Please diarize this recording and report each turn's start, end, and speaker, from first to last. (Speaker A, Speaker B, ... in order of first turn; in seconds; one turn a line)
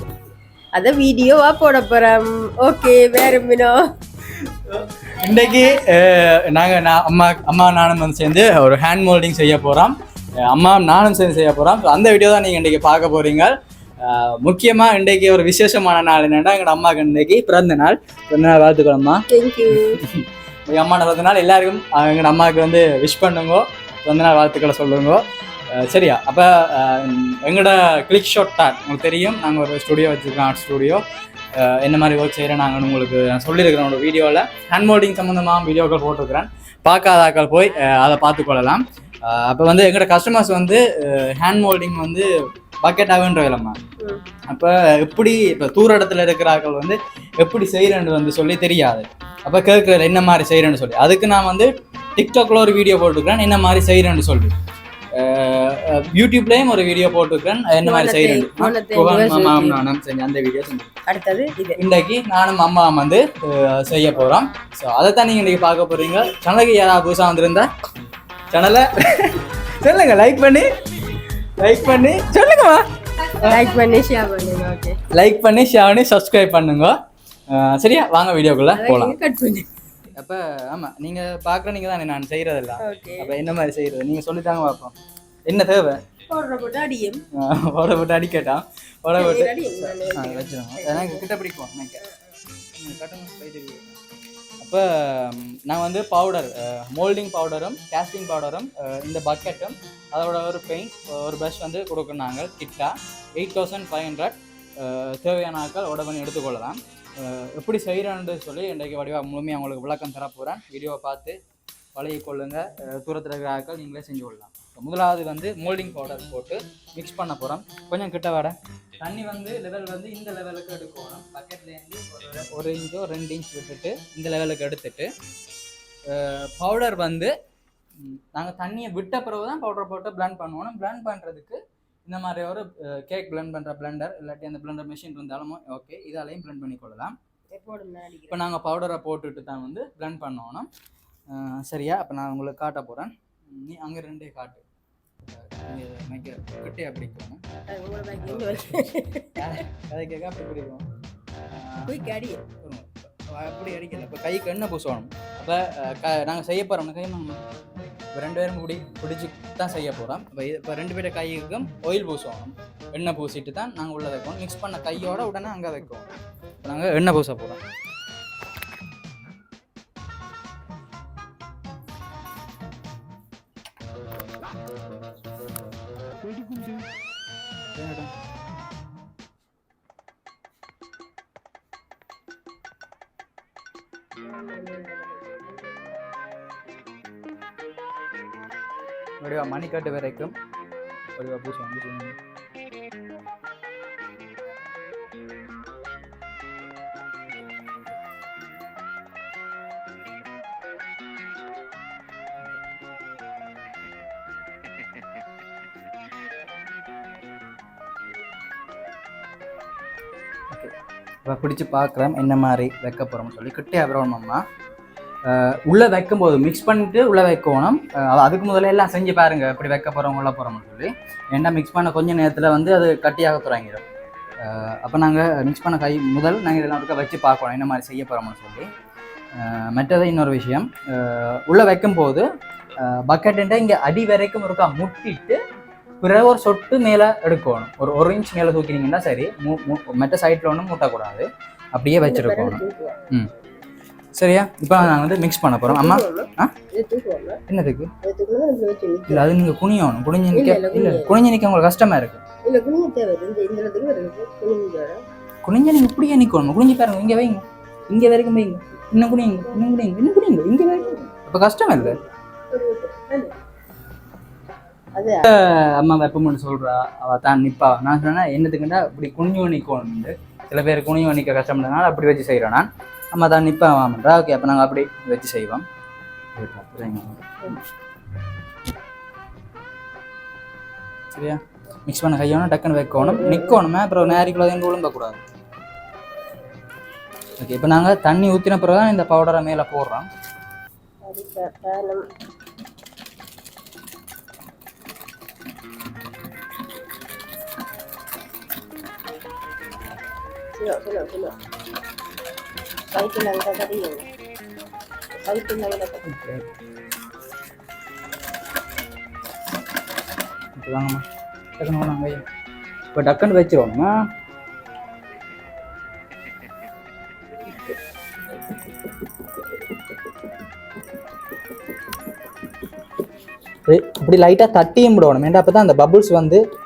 Speaker A: 0.7-3.8
Speaker B: 4.3-25.2
Speaker A: 19.3-20.0
Speaker B: 25.7-31.0
Speaker B: 31.6-42.3
Speaker B: 42.8-43.8
Speaker B: 44.5-54.5
Speaker B: 55.1-60.9
Speaker A: 57.8-59.8
Speaker A: 61.1-61.8
Speaker B: 61.8-67.7
Speaker B: 68.5-73.7
Speaker A: 73.2-75.0
Speaker B: 75.1-77.0
Speaker B: 77.5-79.2
Speaker A: 78.7-79.7
Speaker B: 80.1-85.0
Speaker A: 82.8-83.3
Speaker B: 85.5-86.0
Speaker A: 86.3-87.2
Speaker B: 87.3-92.0
Speaker A: 89.2-91.2
Speaker A: 92.0-92.4
Speaker B: 92.8-94.0
Speaker B: 94.6-111.4
Speaker B: 112.0-125.1
Speaker B: 126.1-127.3
Speaker B: 128.0-137.2
Speaker A: 137.5-138.4
Speaker B: 138.3-140.7
Speaker B: 141.3-144.6
Speaker B: 145.2-147.4
Speaker A: 147.7-149.6
Speaker B: 148.2-150.8
Speaker B: 151.5-151.9
Speaker A: 151.9-152.4
Speaker B: 152.6-157.4
Speaker B: 158.2-166.1
Speaker B: 166.6-167.6
Speaker B: 177.7-178.1
Speaker A: 184.2-186.0
Speaker B: 189.2-190.3
Speaker B: 191.2-192.2
Speaker B: 211.2-214.4
Speaker B: 215.2-223.8
Speaker B: 224.4-228.7
Speaker B: 229.4-232.3
Speaker B: 232.8-235.4
Speaker B: 236.0-243.3
Speaker A: 242.0-243.0
Speaker B: 244.2-246.5
Speaker A: 245.7-247.4
Speaker B: 247.5-247.9
Speaker A: 248.0-249.3
Speaker B: 249.1-252.2
Speaker A: 250.3-251.1
Speaker A: 252.4-255.0
Speaker B: 255.4-262.0
Speaker A: 261.8-263.4
Speaker A: 265.0-265.2
Speaker B: 265.2-275.6
Speaker B: 276.4-277.6
Speaker B: 281.1-285.2
Speaker A: 282.9-283.6
Speaker B: 287.4-290.1
Speaker A: 291.0-292.1
Speaker A: 300.6-301.4
Speaker A: 302.9-304.1
Speaker A: 305.2-306.1
Speaker B: 306.1-306.5
Speaker B: 310.6-311.1
Speaker B: 311.6-312.2
Speaker B: 312.9-314.0
Speaker B: 323.7-326.4